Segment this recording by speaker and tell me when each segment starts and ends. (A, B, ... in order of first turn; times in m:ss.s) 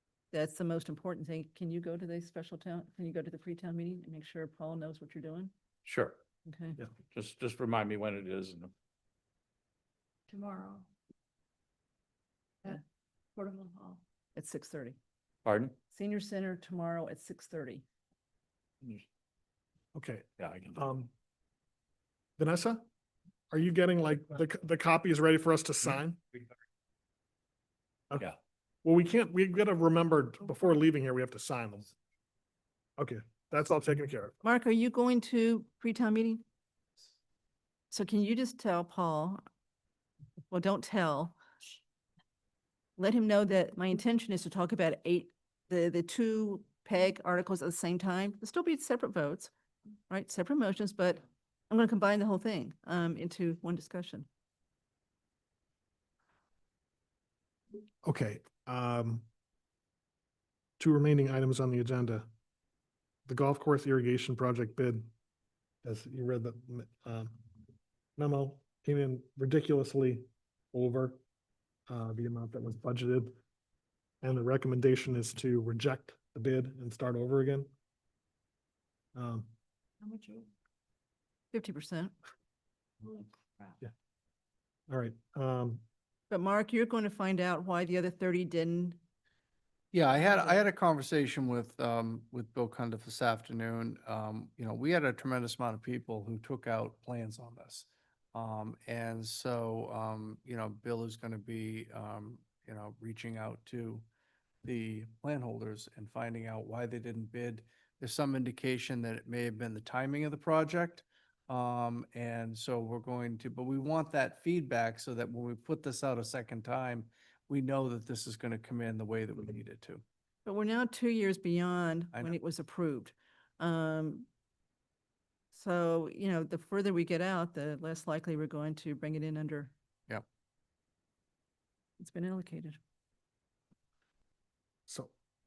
0:00.3-0:05.5 A
0:05.8-0:06.2 B
0:06.5-0:06.8 A
0:07.1-0:08.7 B
0:10.3-0:10.9 C
0:13.4-0:14.0 C
0:14.4-0:15.0 A
0:15.5-0:15.7 B
0:15.9-0:17.8 A
0:19.9-0:21.1 D
0:20.4-0:20.8 B
0:22.4-0:22.8 D
0:23.5-0:26.2 D
0:28.8-0:31.9 D
0:33.0-0:34.4 D
0:34.4-0:36.4 A
0:37.9-0:39.4 A
0:40.5-0:41.4 A
0:43.0-0:49.5 A
0:50.1-0:54.3 A
0:58.0-0:59.3 D
1:00.8-1:02.3 D
1:03.3-1:05.1 D
1:05.8-1:07.4 D
1:08.2-1:11.2 D
1:11.9-1:13.3 D
1:14.2-1:17.7 D
1:19.2-1:19.5 D
1:20.0-1:20.5 C
1:21.5-1:22.1 A
1:23.0-1:23.8 C
1:24.9-1:25.8 D
1:26.3-1:29.0 A
1:29.9-1:44.0 E
1:44.6-2:00.0 E
2:00.4-2:04.3 A
2:05.5-2:09.7 A
2:12.0-2:12.8 A
2:14.9-2:15.1 D